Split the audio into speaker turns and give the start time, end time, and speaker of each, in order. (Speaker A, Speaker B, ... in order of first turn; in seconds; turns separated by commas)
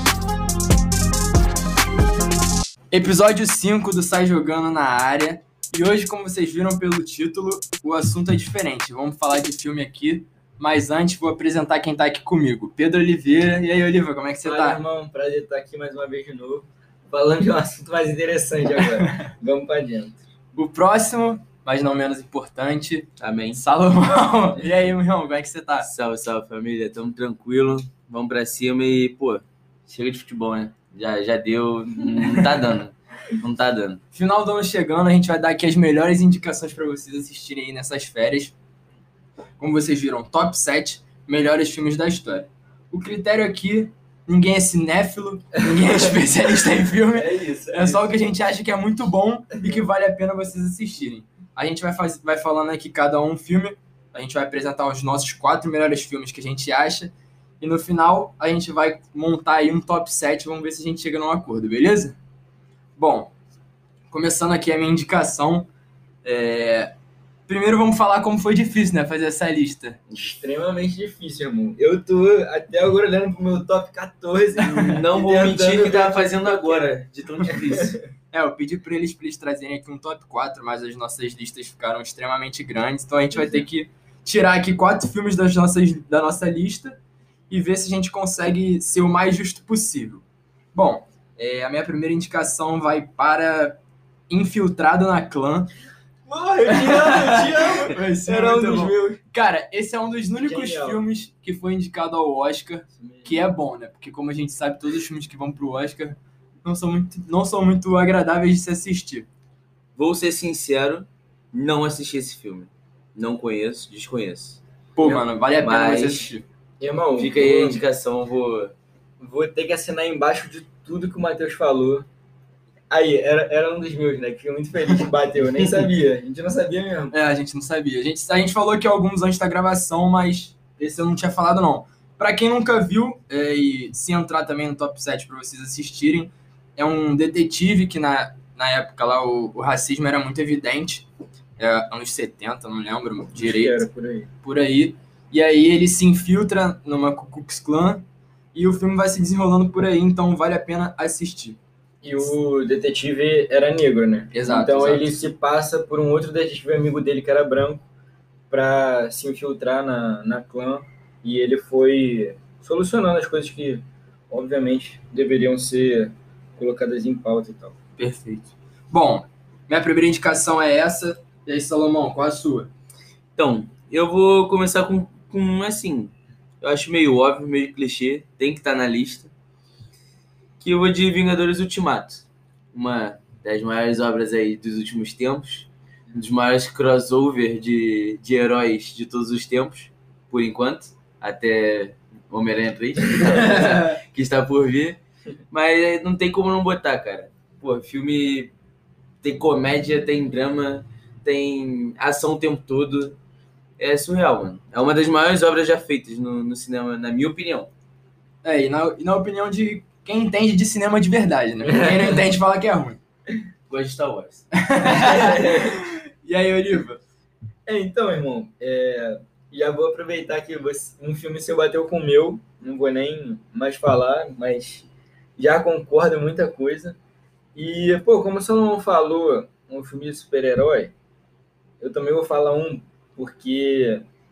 Speaker A: 2.9-14.8, Speaker B: 14.4-20.2, Speaker A: 18.8-19.3, Speaker A: 20.5-25.9, Speaker C: 23.2-23.6, Speaker C: 25.8-34.0, Speaker A: 34.1-38.5, Speaker A: 39.6-62.2, Speaker B: 45.6-46.2, Speaker B: 47.1-48.0, Speaker A: 63.0-63.3, Speaker A: 64.1-65.7, Speaker A: 66.2-66.9, Speaker A: 67.5-70.0, Speaker B: 70.1-76.9, Speaker C: 74.7-78.0, Speaker B: 77.5-78.0, Speaker A: 78.3-87.0, Speaker B: 83.3-83.6, Speaker A: 87.5-93.8, Speaker A: 94.3-95.7, Speaker B: 96.2-99.2, Speaker A: 96.7-109.3, Speaker B: 100.4-101.0, Speaker B: 103.0-103.4, Speaker C: 110.0-116.3, Speaker A: 115.0-116.4, Speaker B: 116.8-117.8, Speaker C: 117.2-118.7, Speaker B: 119.2-122.1, Speaker B: 122.9-127.1, Speaker A: 127.1-141.1, Speaker A: 141.6-143.8, Speaker B: 143.3-144.3, Speaker A: 144.4-151.6, Speaker B: 152.0-157.8, Speaker A: 154.3-155.3, Speaker B: 158.5-167.8, Speaker A: 168.0-172.7, Speaker C: 173.4-179.3, Speaker C: 180.6-195.0, Speaker A: 193.2-194.0, Speaker C: 195.5-198.5, Speaker C: 199.2-203.2, Speaker C: 203.8-207.7, Speaker A: 208.4-213.0, Speaker B: 211.8-212.2, Speaker C: 213.7-214.5, Speaker A: 214.5-217.0, Speaker B: 214.8-215.8, Speaker B: 217.7-224.9, Speaker B: 225.4-227.0, Speaker B: 227.5-230.9, Speaker B: 231.8-234.0